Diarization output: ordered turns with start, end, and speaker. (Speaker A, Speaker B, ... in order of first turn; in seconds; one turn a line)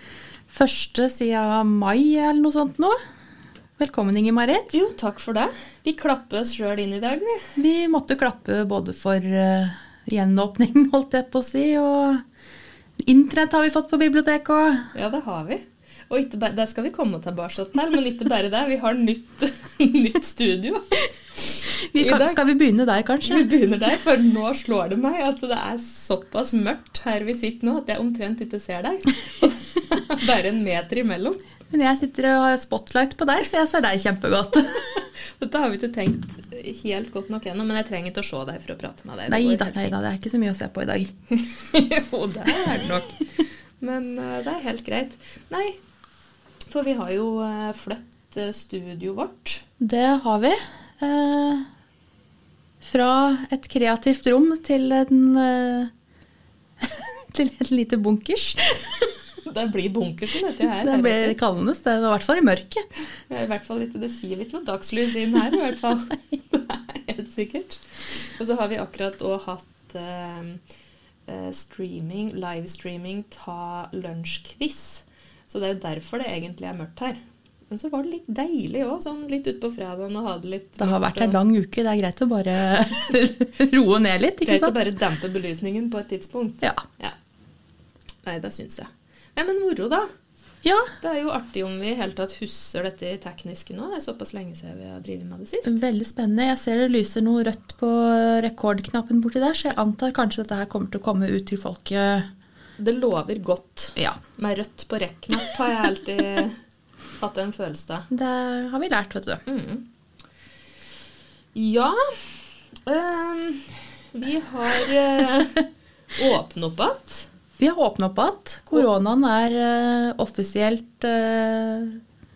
Speaker A: 0.5-3.0
Speaker A: 3.8-4.7
Speaker B: 4.7-7.5
Speaker A: 7.6-12.2
Speaker A: 13.0-14.9
Speaker B: 14.9-22.4
Speaker A: 21.9-23.5
Speaker B: 23.2-31.4
Speaker A: 31.7-35.1
Speaker B: 35.4-40.0
Speaker A: 39.3-41.1
Speaker B: 41.3-43.2
Speaker B: 43.8-45.8
Speaker B: 46.7-49.6
Speaker A: 49.8-51.6
Speaker A: 52.8-55.9
Speaker A: 56.8-58.8
Speaker B: 59.4-61.4
Speaker A: 60.8-62.8
Speaker B: 63.3-67.8
Speaker B: 68.3-70.6
Speaker B: 71.3-77.2
Speaker B: 77.7-81.4
Speaker A: 80.8-84.8
Speaker B: 84.4-87.1
Speaker B: 88.2-90.1
Speaker A: 90.6-90.9
Speaker B: 91.0-95.7
Speaker A: 95.7-102.3
Speaker B: 102.8-106.6
Speaker B: 107.2-108.1
Speaker A: 108.1-109.4
Speaker B: 109.5-109.8
Speaker B: 111.5-117.3
Speaker A: 117.6-122.0